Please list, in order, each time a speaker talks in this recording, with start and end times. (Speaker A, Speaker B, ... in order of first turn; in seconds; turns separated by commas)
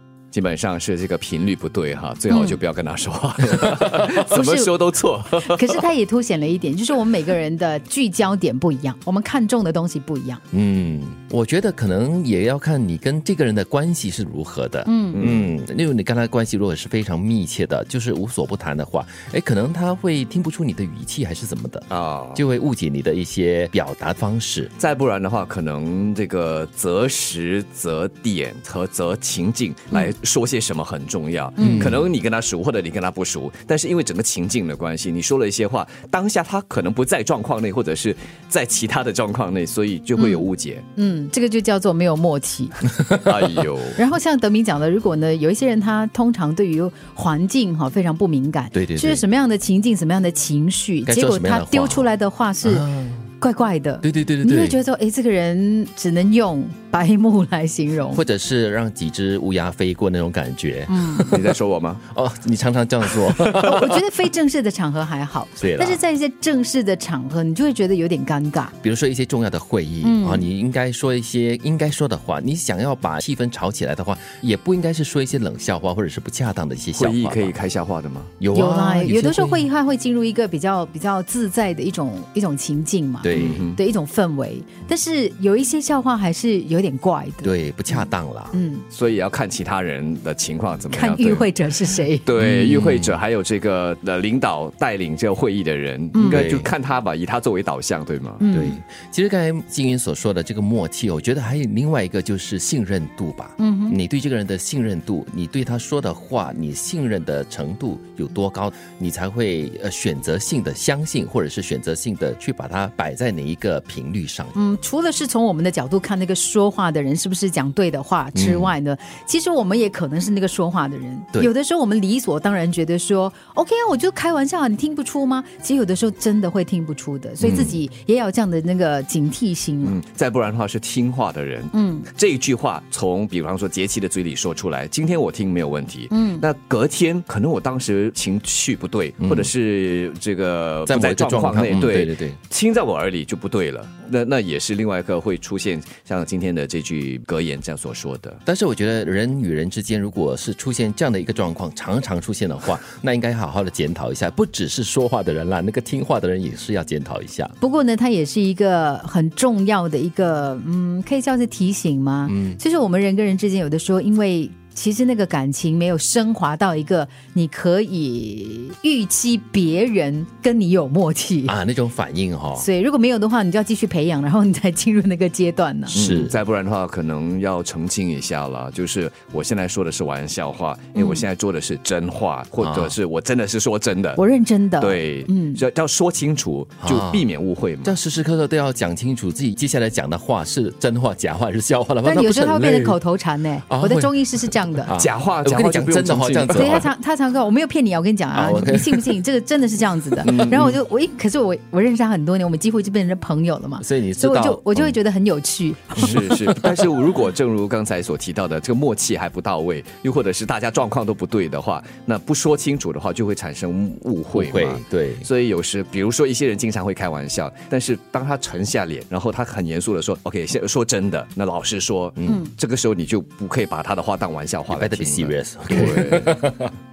Speaker A: 0.3-5.8, Speaker B: 2.3-2.6, Speaker B: 3.8-4.8, Speaker B: 5.3-10.4, Speaker C: 10.5-24.7, Speaker B: 14.9-15.2, Speaker A: 15.1-15.5, Speaker A: 21.9-22.4, Speaker A: 24.8-40.8, Speaker B: 31.6-32.0, Speaker C: 31.6-32.0, Speaker B: 40.2-42.9, Speaker A: 43.2-44.0, Speaker B: 44.0-52.9, Speaker C: 48.7-49.2, Speaker C: 51.0-52.1, Speaker C: 52.6-53.3, Speaker B: 53.4-58.2, Speaker C: 54.0-54.8, Speaker C: 58.1-61.5, Speaker B: 60.9-61.4, Speaker A: 61.3-62.0, Speaker C: 62.1-64.0, Speaker A: 63.4-63.7, Speaker B: 63.6-68.7, Speaker C: 65.6-66.0, Speaker C: 68.8-77.5, Speaker B: 70.0-70.5, Speaker A: 76.9-78.3, Speaker C: 78.4-79.7, Speaker B: 78.5-88.8, Speaker C: 83.2-83.6, Speaker A: 83.3-83.8, Speaker C: 87.4-88.6, Speaker A: 88.9-91.5, Speaker B: 90.9-92.3, Speaker A: 92.2-98.4, Speaker C: 92.4-93.2, Speaker B: 96.1-96.4, Speaker C: 96.2-96.7, Speaker B: 98.4-98.8, Speaker C: 98.5-114.5, Speaker B: 103.6-104.0, Speaker B: 114.5-130.0, Speaker C: 118.3-118.7, Speaker C: 127.4-127.8, Speaker A: 129.8-148.4, Speaker B: 131.7-132.1, Speaker B: 136.1-136.5, Speaker C: 139.2-139.5, Speaker C: 140.9-142.4, Speaker C: 148.4-157.6, Speaker B: 157.6-171.6, Speaker C: 162.3-162.6, Speaker C: 171.4-172.7, Speaker B: 172.6-176.0, Speaker A: 175.9-184.2, Speaker C: 175.9-176.4, Speaker B: 180.9-181.3, Speaker C: 182.6-183.0, Speaker B: 184.2-185.6, Speaker A: 184.8-188.0, Speaker C: 186.8-187.3, Speaker C: 187.8-193.0, Speaker B: 192.0-194.9, Speaker C: 193.7-196.9, Speaker A: 194.9-196.9, Speaker B: 196.5-206.3, Speaker C: 198.3-199.1, Speaker C: 200.2-200.6, Speaker A: 200.2-200.8, Speaker C: 203.8-205.0, Speaker A: 205.9-226.4, Speaker C: 214.3-215.3, Speaker C: 222.2-222.4, Speaker C: 224.7-226.7